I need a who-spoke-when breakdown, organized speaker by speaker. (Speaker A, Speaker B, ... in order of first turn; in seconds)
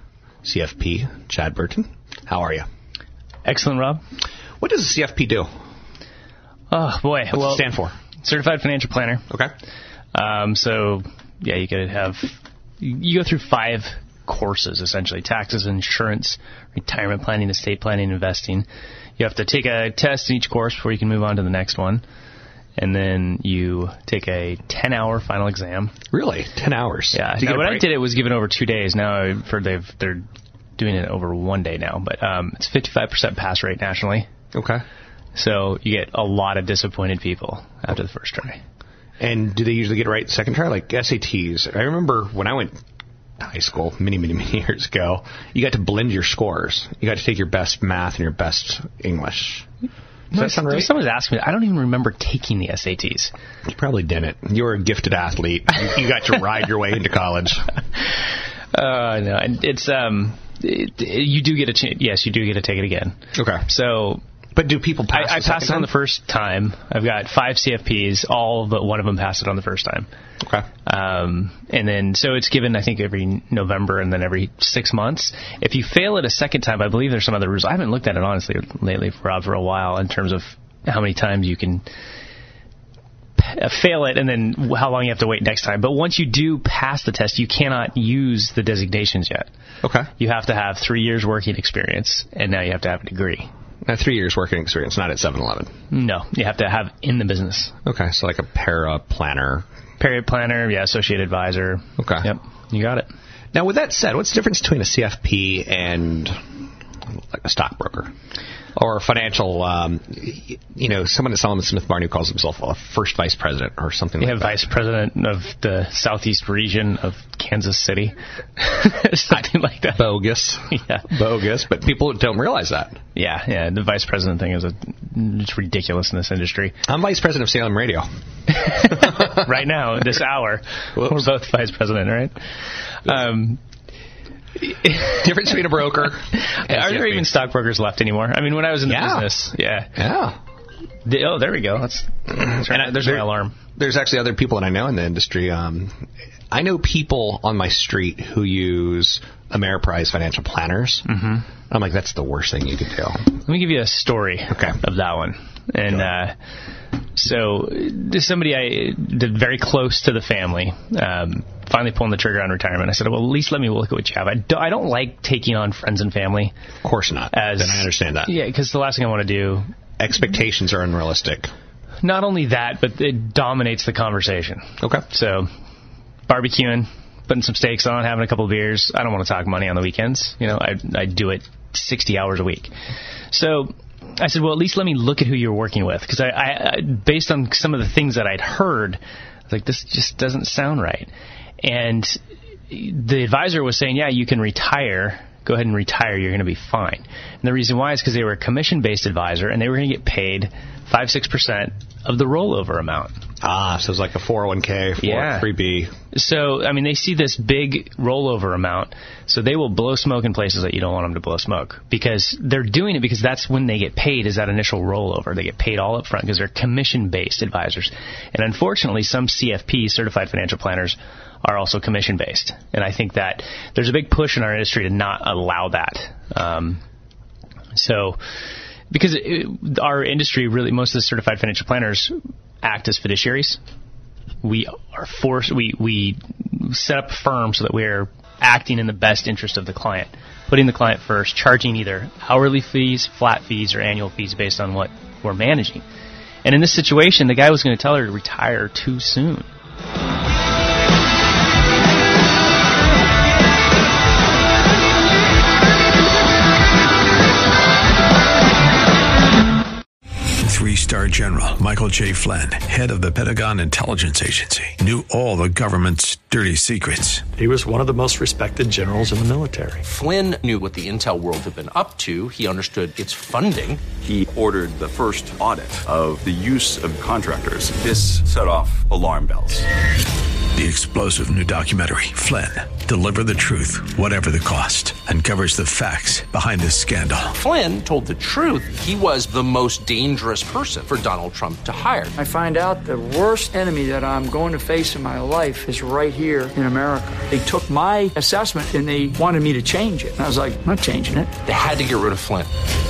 Speaker A: 0.4-2.7, 4.6-5.5, 7.3-7.9, 26.1-27.9, 34.5-34.8, 39.2-42.7, 43.4-49.6, 50.3-50.9, 53.7-57.6, 63.4-63.7, 64.5-65.9, 89.8-90.1, 93.8-95.7, 97.8-99.6, 102.0-102.3, 103.5-106.3, 107.3-108.1, 108.8-114.6, 119.3-123.0, 126.9-128.1, 128.6-129.3, 130.9-131.2, 135.0-137.2, 138.8-140.4, 142.4-145.9, 146.5-151.1, 151.7-153.2, 154.5-154.8, 166.8-168.3, 170.0-171.5, 203.4-205.9
Speaker B: 3.4-4.0, 6.7-9.3, 10.1-18.6, 19.2-22.0, 22.8-25.9, 27.1-30.2, 30.8-34.3, 35.3-38.6, 50.3-53.3, 58.7-64.2, 65.1-70.1, 70.8-81.8, 83.4-89.5, 90.2-93.5, 95.9-97.7, 100.0-103.1, 114.2-120.1, 120.7-121.1, 123.1-126.8, 128.5-132.4, 133.0-133.6, 134.6-135.2, 136.0-139.9, 141.0-143.6, 151.1-151.4, 153.4-156.3, 157.2-166.5, 167.3-169.7, 172.0-175.5, 176.3-182.7, 183.3-191.1, 191.6-203.2, 205.0-205.5, 206.1-226.8, 227.7-228.2, 228.9-233.6, 234.4-245.8, 246.4-249.5
Speaker C: 260.4-267.3, 280.5-287.3
Speaker D: 267.8-269.8
Speaker E: 269.8-273.9, 287.3-292.1, 301.4-302.5
Speaker F: 274.0-279.6
Speaker G: 292.1-301.3